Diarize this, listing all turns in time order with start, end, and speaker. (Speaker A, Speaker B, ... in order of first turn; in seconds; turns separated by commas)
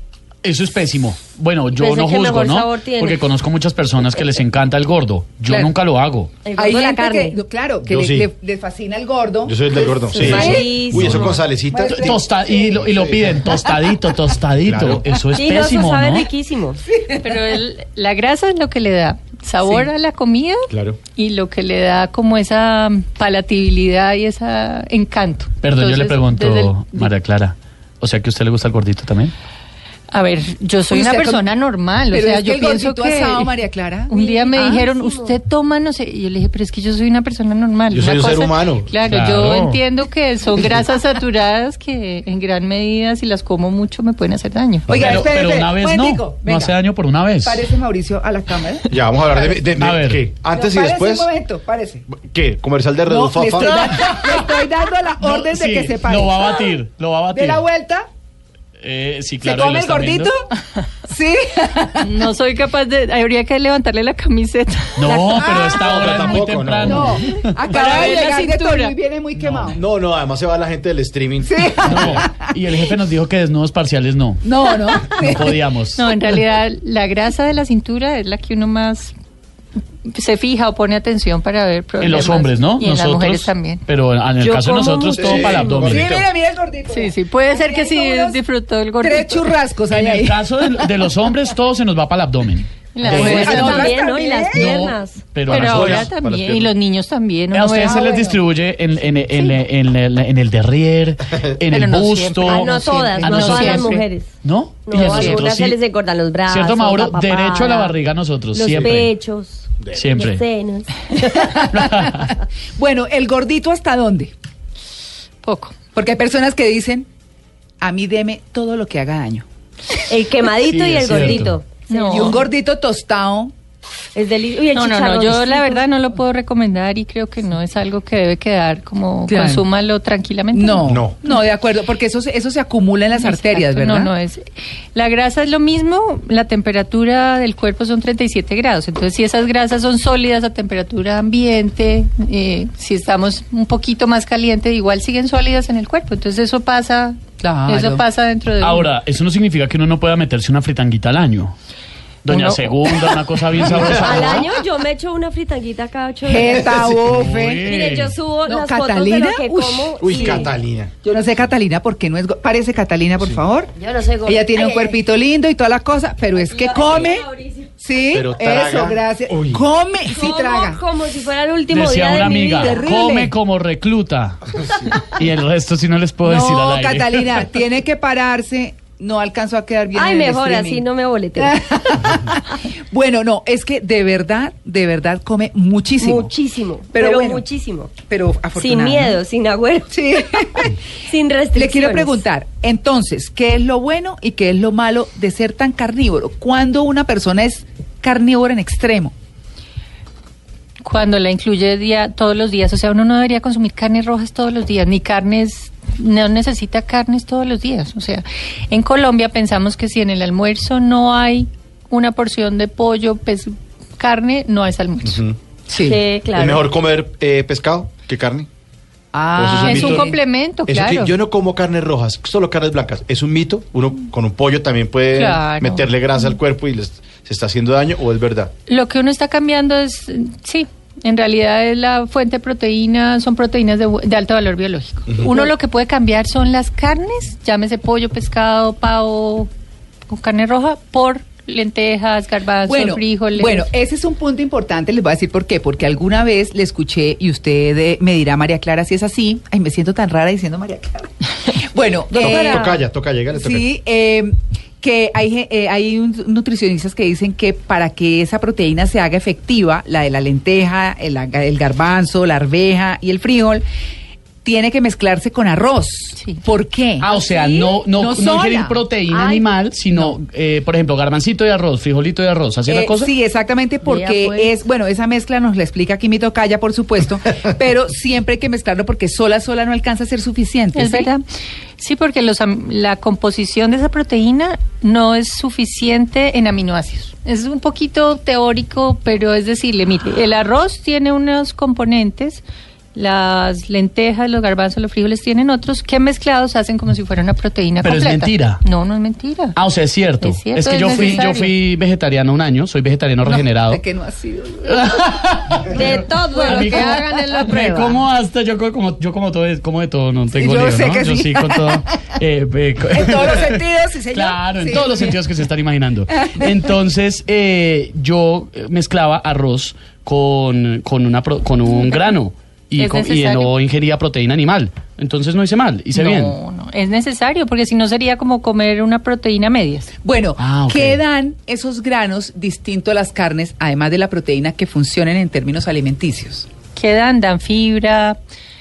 Speaker A: 0.4-6.3, Speaker B: 1.7-3.2, Speaker B: 6.4-7.4, Speaker C: 6.5-11.1, Speaker D: 7.8-8.3, Speaker D: 9.4-13.6, Speaker B: 10.1-11.4, Speaker A: 10.4-11.3, Speaker C: 11.7-12.8, Speaker A: 11.8-16.3, Speaker D: 14.6-15.0, Speaker B: 15.3-16.8, Speaker C: 16.9-17.5, Speaker E: 17.1-27.1, Speaker D: 20.7-21.0, Speaker A: 25.6-29.3, Speaker E: 30.1-33.5, Speaker C: 30.9-31.4, Speaker C: 32.1-34.8, Speaker E: 34.1-44.9, Speaker B: 34.1-35.4, Speaker D: 37.9-38.9, Speaker A: 39.0-39.8, Speaker D: 44.9-45.3, Speaker C: 44.9-46.8, Speaker A: 44.9-47.7, Speaker C: 47.4-49.7, Speaker D: 48.9-51.3, Speaker A: 49.8-50.3, Speaker C: 50.5-52.0, Speaker D: 52.1-54.0, Speaker C: 53.1-56.7, Speaker A: 53.6-54.6, Speaker A: 55.2-57.6, Speaker C: 57.3-58.0, Speaker A: 58.8-60.3, Speaker C: 59.4-60.4, Speaker C: 61.1-62.1, Speaker E: 62.0-65.8, Speaker A: 65.0-67.8, Speaker C: 65.3-65.9, Speaker D: 65.8-67.2, Speaker C: 66.8-69.8, Speaker E: 67.7-69.0, Speaker D: 69.7-72.2, Speaker C: 71.4-72.5, Speaker A: 71.8-74.4, Speaker C: 74.4-75.6, Speaker A: 75.0-76.0, Speaker E: 76.0-79.1, Speaker E: 80.0-83.8, Speaker A: 82.0-86.1, Speaker B: 84.4-85.5, Speaker D: 85.2-86.3, Speaker C: 85.6-88.4, Speaker E: 86.9-89.5, Speaker C: 89.0-91.0, Speaker A: 89.9-94.0, Speaker E: 92.9-93.9, Speaker C: 93.0-94.9, Speaker B: 93.0-95.2, Speaker A: 94.5-96.1, Speaker D: 95.5-96.7, Speaker E: 95.5-98.3, Speaker A: 97.5-105.8, Speaker C: 97.8-98.4, Speaker E: 99.3-99.6, Speaker E: 101.7-104.0, Speaker B: 102.4-107.9, Speaker E: 105.0-105.4, Speaker A: 106.5-109.1, Speaker B: 108.5-111.1, Speaker D: 108.7-109.0, Speaker A: 109.9-110.4, Speaker C: 111.2-114.3, Speaker A: 111.7-112.3, Speaker E: 115.4-115.7, Speaker C: 115.9-117.1, Speaker C: 117.8-119.4, Speaker B: 120.1-122.4, Speaker A: 120.7-121.5, Speaker E: 121.9-122.4, Speaker C: 121.9-123.5, Speaker B: 124.1-125.8, Speaker E: 124.7-131.4, Speaker C: 129.3-129.6, Speaker C: 130.5-134.1, Speaker D: 130.8-131.2, Speaker E: 133.1-148.9, Speaker C: 147.4-148.0, Speaker A: 148.6-151.5, Speaker A: 152.2-154.5, Speaker E: 152.3-152.8, Speaker D: 153.6-154.3, Speaker B: 153.9-156.8, Speaker C: 156.2-157.7, Speaker A: 157.0-158.2, Speaker B: 157.7-160.5, Speaker C: 158.4-160.5, Speaker D: 160.0-160.9, Speaker C: 161.0-163.7, Speaker B: 163.8-165.0, Speaker C: 164.2-167.3, Speaker B: 166.4-167.7, Speaker C: 167.8-170.8, Speaker D: 168.1-169.6, Speaker B: 170.1-173.0, Speaker A: 171.7-174.4, Speaker C: 172.5-173.3, Speaker A: 175.0-177.4, Speaker C: 176.2-180.8, Speaker B: 179.9-181.6, Speaker C: 181.4-186.3, Speaker B: 186.0-187.9, Speaker C: 186.9-187.4, Speaker C: 188.0-189.2, Speaker B: 188.6-192.2, Speaker C: 189.9-190.7, Speaker C: 191.6-199.1, Speaker E: 200.8-215.2, Speaker D: 215.0-215.4, Speaker C: 215.7-216.0, Speaker B: 215.8-216.6, Speaker D: 216.3-218.5, Speaker C: 219.1-220.2, Speaker D: 219.3-220.1, Speaker E: 219.6-221.1, Speaker D: 220.7-228.5, Speaker E: 225.1-225.9, Speaker E: 228.7-239.5, Speaker E: 240.1-243.7, Speaker C: 242.7-252.8, Speaker B: 252.1-252.8, Speaker D: 252.1-253.7, Speaker C: 253.3-263.6, Speaker C: 264.4-267.1, Speaker E: 266.2-266.4, Speaker A: 267.0-273.1, Speaker B: 267.1-267.5, Speaker C: 267.9-268.8, Speaker B: 269.1-269.4, Speaker C: 272.7-281.1, Speaker B: 273.9-274.5, Speaker E: 280.7-281.2, Speaker E: 281.8-292.4, Speaker E: 292.9-299.6, Speaker A: 297.8-298.6, Speaker A: 299.6-303.8, Speaker E: 300.2-301.5, Speaker C: 300.9-301.3, Speaker C: 303.2-305.0, Speaker A: 304.6-326.4, Speaker B: 305.7-307.2, Speaker E: 306.3-308.0, Speaker C: 310.3-311.8, Speaker C: 312.9-315.2, Speaker C: 316.2-316.6, Speaker E: 322.8-323.5, Speaker E: 325.9-329.9, Speaker C: 330.0-336.5, Speaker A: 330.4-331.0, Speaker E: 336.7-338.2